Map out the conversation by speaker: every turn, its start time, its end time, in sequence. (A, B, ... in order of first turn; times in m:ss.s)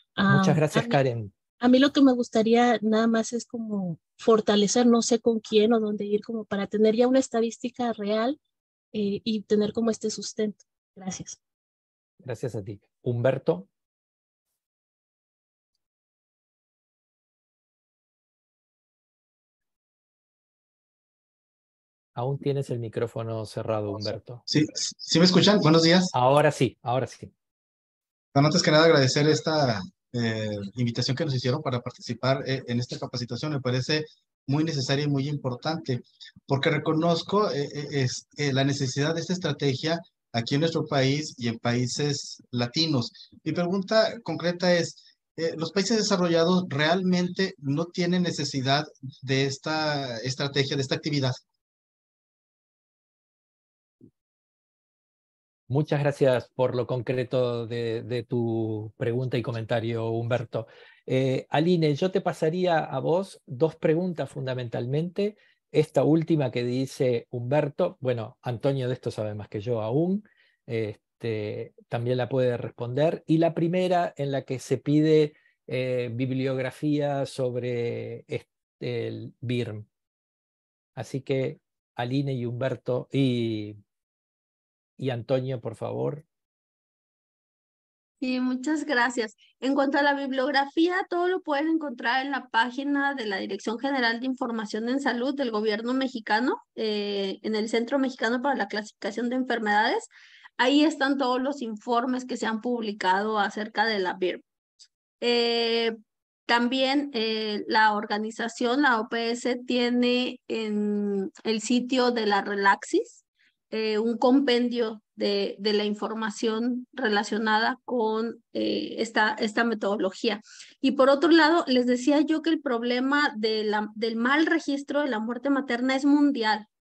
0:00.2-0:01.0 A
0:00.3-0:01.3 B
0:01.6-0:08.4 A
0:08.9-0:11.4 A
0:12.2-0:13.7 B
0:22.2-0:24.4 B
0:24.5-0:26.1 C
0:26.1-0:27.3 B
0:28.3-0:51.4 C
0:55.7-1:19.8 B
1:21.0-1:23.8 B
1:25.0-1:26.2 B
1:28.2-1:44.4 D
1:45.2-1:45.9 D
1:46.5-2:06.6 D